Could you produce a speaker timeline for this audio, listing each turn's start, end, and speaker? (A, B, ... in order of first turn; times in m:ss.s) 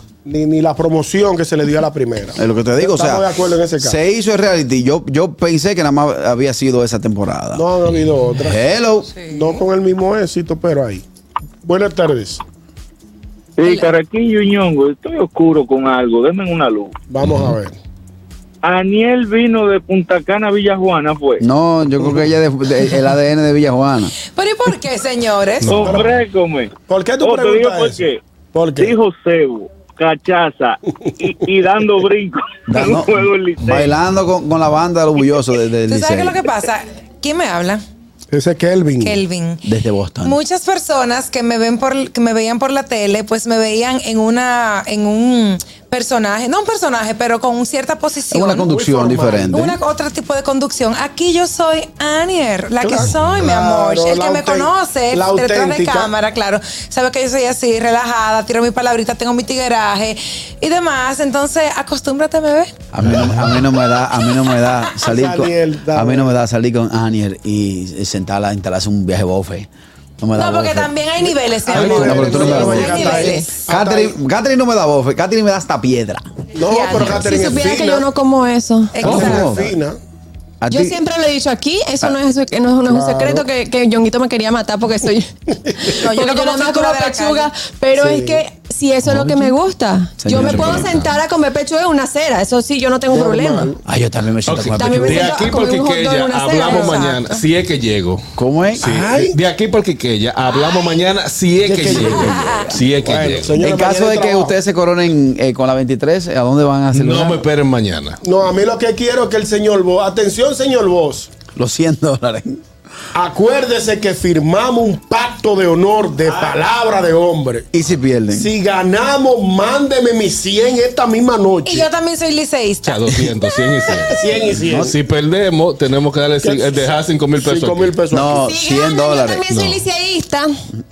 0:00.2-0:04.0 A
0:02.4-0:03.3 B
0:03.8-0:07.6 B
0:07.5-0:08.6 A
0:08.3-0:09.1 B
0:09.1-0:09.6 C
0:09.2-0:11.0 A
0:11.6-0:12.4 A
0:13.6-0:16.9 D
0:13.6-0:13.9 C
0:17.1-0:17.8 A
0:17.2-0:17.6 E
0:18.6-0:21.4 D
0:21.4-0:24.1 B
0:24.3-0:25.8 C
0:25.6-0:26.2 E
0:25.7-0:28.2 D
0:25.8-0:26.1 A
0:26.9-0:29.0 A
0:28.8-0:33.9 D
0:32.7-0:36.4 B
0:35.9-0:37.8 C
0:38.3-0:39.2 A
0:39.0-0:39.6 C
0:39.6-0:40.4 B
0:40.2-0:48.7 C
0:48.3-0:49.8 B
0:48.7-0:49.7 A
0:49.5-1:02.7 C
0:52.8-0:56.1 A
0:53.1-0:53.4 E
1:02.9-1:09.7 B
1:03.1-1:03.6 E
1:05.0-1:06.4 A
1:10.2-1:10.9 B
1:10.4-1:13.5 C
1:11.7-1:14.2 A
1:11.7-1:16.2 B
1:12.4-1:13.5 F
1:16.6-1:18.1 A
1:16.6-1:17.6 C
1:17.0-1:19.1 F
1:18.9-1:19.6 C
1:19.0-1:20.0 A
1:19.0-1:19.7 B
1:20.6-1:21.0 B
1:20.7-1:33.8 F
1:22.9-1:23.4 A
1:25.9-1:27.5 C
1:27.9-1:28.4 A
1:29.0-1:29.5 B
1:30.2-1:31.2 B
1:30.4-1:30.9 E
1:33.1-1:33.7 A
1:33.8-1:35.4 B
1:34.4-1:38.2 E
1:34.8-1:37.4 F
1:38.4-1:38.9 B
1:38.8-1:43.6 E
1:38.8-1:39.4 A
1:41.6-1:44.6 A
1:41.9-1:42.7 C
1:42.0-1:42.7 B
1:43.6-1:47.4 B
1:46.9-1:48.2 E
1:48.2-1:51.3 A
1:51.5-1:52.6 B
1:53.1-1:57.7 A
1:57.7-1:58.5 B
1:58.3-2:01.9 A
2:01.6-2:03.1 C
2:02.8-2:08.0 E
2:03.8-2:04.9 A
2:04.5-2:04.9 B
2:06.4-2:08.4 A
2:08.1-2:09.5 B
2:08.4-2:10.5 F
2:09.5-2:09.8 E